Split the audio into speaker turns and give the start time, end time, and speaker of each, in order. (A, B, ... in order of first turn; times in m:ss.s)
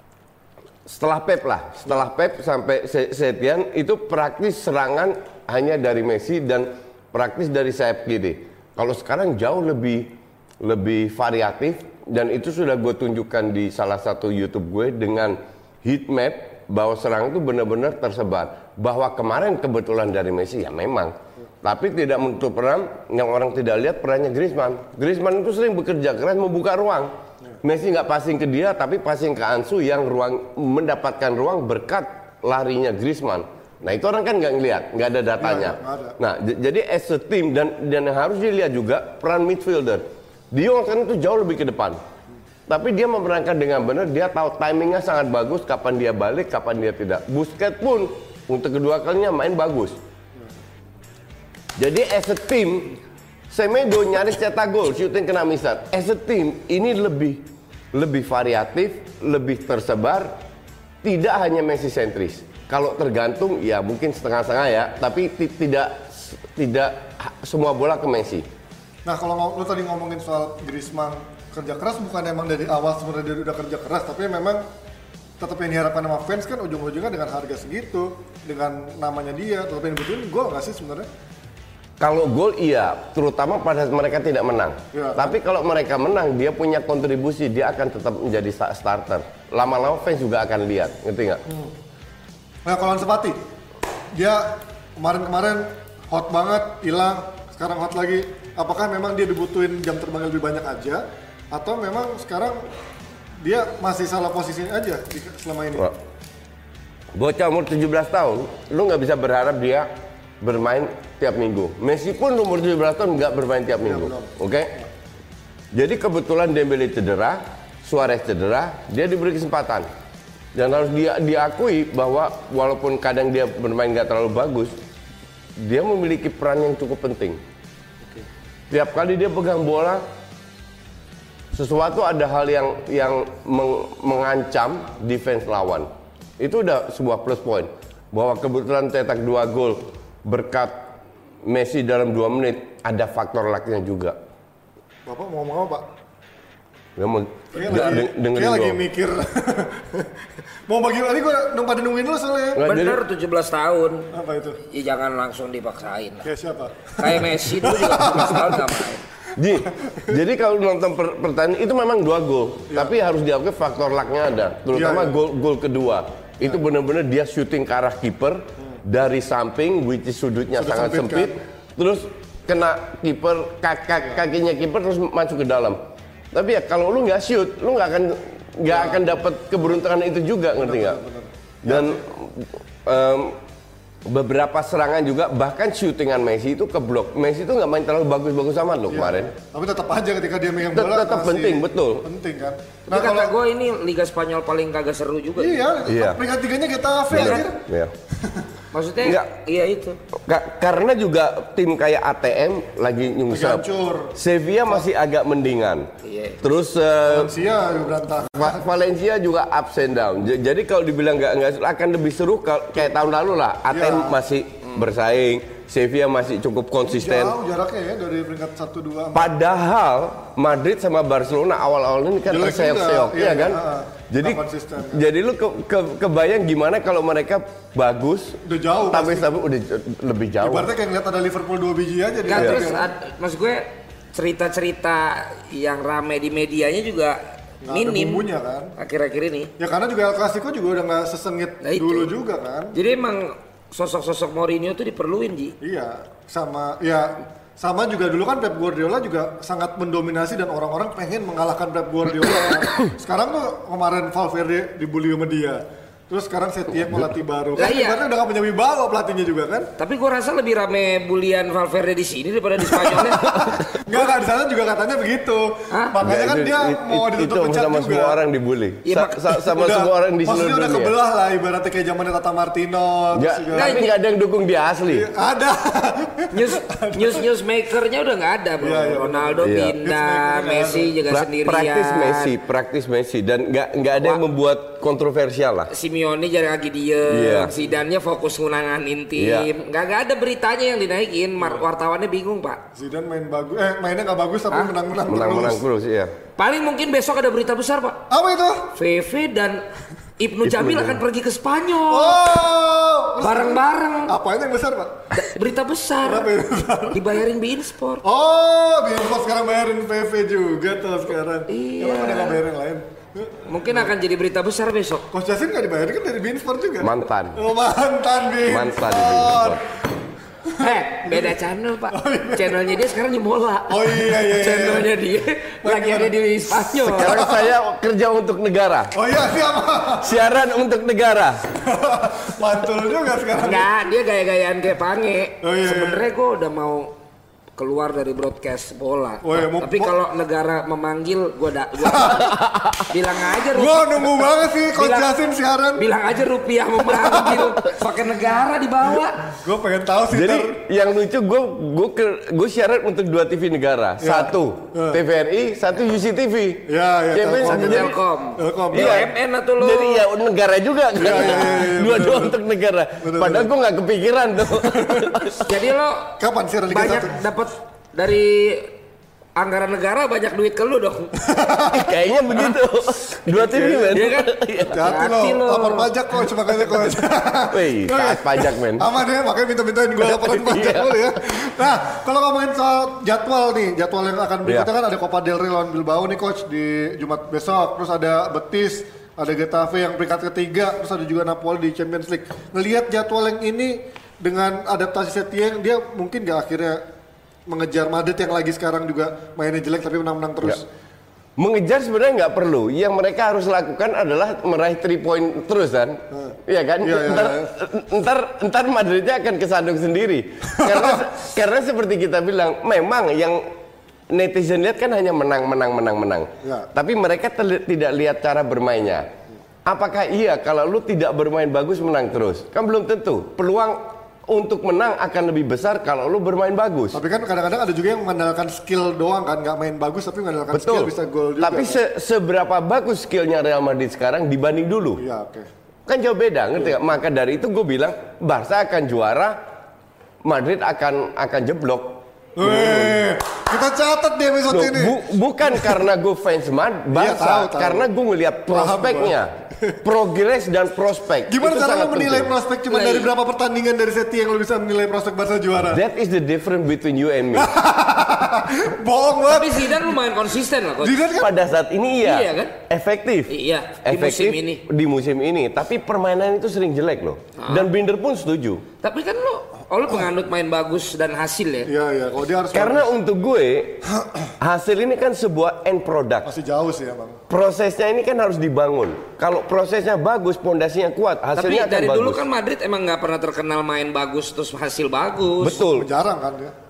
0:00.9-0:42.0 A
0:35.4-0:36.2 B
0:42.7-0:50.0 A
0:51.8-0:53.0 A
0:53.5-1:00.4 A
1:01.0-1:08.5 A
1:09.1-1:14.6 B
1:15.4-1:21.1 B
1:22.0-1:31.4 A
1:24.9-1:25.3 B
1:31.5-1:31.7 B
1:32.7-1:33.4 B
1:34.2-1:42.6 B
1:43.4-1:45.9 B
1:47.2-1:49.9 A
1:50.4-1:54.7 A
1:53.8-1:54.9 B
1:55.7-1:59.9 A
2:00.6-2:04.8 A
2:05.6-2:07.4 A
2:08.7-2:10.0 A
2:11.5-2:20.9 A
2:21.4-2:24.2 A
2:25.1-2:25.8 B
2:27.0-2:28.8 A
2:27.6-2:30.1 B
2:30.7-2:32.6 B
2:32.6-2:33.0 A
2:32.6-2:34.1 C
2:34.1-2:34.6 B
2:34.7-2:36.3 C
2:36.2-2:38.7 B
2:37.0-2:39.0 C
2:39.4-2:55.8 A
2:39.6-2:40.2 B
2:44.7-2:45.2 B
2:50.6-2:51.3 B
2:56.3-3:01.0 A
2:58.7-2:59.1 B
3:00.6-3:02.0 B
3:01.7-3:03.4 A
3:04.1-3:09.3 A
3:08.9-3:13.3 B
3:10.7-3:12.1 A
3:12.9-3:15.6 C
3:15.4-3:17.6 B
3:15.8-3:16.2 A
3:17.1-3:17.9 A
3:18.7-3:20.0 C
3:19.0-3:19.3 A
3:20.2-3:25.9 A
3:23.3-3:24.1 B
3:26.0-3:26.4 C
3:26.4-3:27.3 A
3:27.0-3:28.6 B
3:28.4-3:37.4 A
3:33.7-3:34.1 B
3:36.9-3:39.3 B
3:39.1-3:50.7 A
3:42.3-3:45.1 B
3:48.5-3:49.3 B
3:50.4-3:52.9 B
3:52.3-3:57.2 C
3:52.3-3:52.6 A
3:57.6-3:58.7 B
3:57.7-3:59.5 C
3:59.6-4:02.7 B
4:01.6-4:02.1 C
4:02.7-4:05.6 C
4:05.6-4:19.7 B
4:17.6-4:18.0 C
4:19.8-4:23.3 C
4:22.6-4:28.2 B
4:26.0-4:31.0 A
4:28.9-4:29.3 C
4:29.5-4:33.8 B
4:33.1-4:35.1 A
4:33.6-4:33.9 C
4:34.9-4:37.2 B
4:36.3-4:42.3 C
4:38.6-4:40.9 B
4:39.4-4:39.8 A
4:41.1-4:45.7 A
4:44.0-4:44.2 C
4:45.7-4:52.6 C
4:47.1-4:47.5 A
4:49.2-4:49.5 A
4:52.8-4:55.6 B
4:55.1-4:56.1 A
4:56.4-4:58.0 C
4:58.1-4:58.7 B
4:58.8-4:59.6 C
5:00.2-5:02.2 C
5:00.4-5:01.0 A
5:01.9-5:04.9 B
5:03.2-5:04.2 C
5:05.1-5:06.3 C
5:06.0-5:07.2 B
5:06.9-5:08.0 C
5:08.0-5:13.9 B
5:11.5-5:12.4 C
5:13.5-5:15.1 C
5:15.1-5:19.6 B
5:16.8-5:17.4 A
5:18.5-5:19.6 A
5:20.6-5:21.4 B
5:20.6-5:27.2 C
5:21.9-5:22.6 B
5:23.7-5:24.9 B
5:25.6-5:27.5 B
5:26.8-5:28.9 A
5:29.0-5:30.2 B
5:30.0-5:31.4 A
5:31.7-5:33.7 B
5:33.4-5:36.9 C
5:35.4-5:36.0 B
5:37.6-5:42.3 C
5:39.2-5:40.0 B
5:41.9-5:42.2 B
5:42.2-5:42.8 A
5:42.9-5:45.1 C
5:43.5-5:45.8 B
5:45.8-5:49.2 C
5:47.0-5:47.6 B
5:49.4-5:50.6 B
5:50.1-5:58.0 A
5:54.0-5:55.0 B
5:56.7-5:59.1 B
5:57.4-6:00.0 C
5:58.7-6:05.4 A
6:01.0-6:02.4 B
6:01.0-6:01.5 C
6:03.0-6:03.5 B
6:04.6-6:05.3 B
6:05.5-6:06.2 C
6:06.2-6:07.1 B
6:06.7-6:08.7 C
6:09.4-6:11.1 C
6:11.2-6:11.9 B
6:11.7-6:14.9 A
6:13.3-6:14.0 B
6:13.9-6:15.9 C
6:14.7-6:36.8 B
6:17.5-6:18.9 A
6:20.0-6:21.1 A
6:37.5-6:40.7 B
6:41.4-6:53.4 A
6:46.1-6:47.5 B
6:50.6-6:51.0 B
6:54.1-6:59.1 A
6:59.6-7:07.0 A
7:06.9-7:11.8 B
7:10.5-7:15.0 A
7:15.0-7:15.5 B
7:15.9-7:19.4 A
7:20.2-7:23.0 A
7:22.4-7:25.0 B
7:24.5-7:29.3 A
7:25.5-7:25.8 B
7:26.9-7:27.9 B
7:28.5-7:29.2 B
7:29.8-7:32.3 A
7:31.3-7:35.8 B
7:32.7-7:33.1 C
7:35.6-7:37.5 A
7:37.4-7:39.9 B
7:39.3-7:41.0 C
7:40.8-7:41.3 B
7:41.2-7:43.3 A
7:42.0-7:42.5 C
7:43.3-7:44.6 C
7:43.8-7:48.6 A
7:47.4-7:47.7 C
7:48.8-7:51.7 C
7:51.7-7:52.9 B
7:52.5-7:53.8 A
7:53.9-7:54.3 B
7:54.4-7:56.3 A
7:56.2-7:57.2 B
7:57.3-8:02.2 A
8:01.4-8:05.6 C
8:05.4-8:05.9 A
8:05.7-8:06.5 B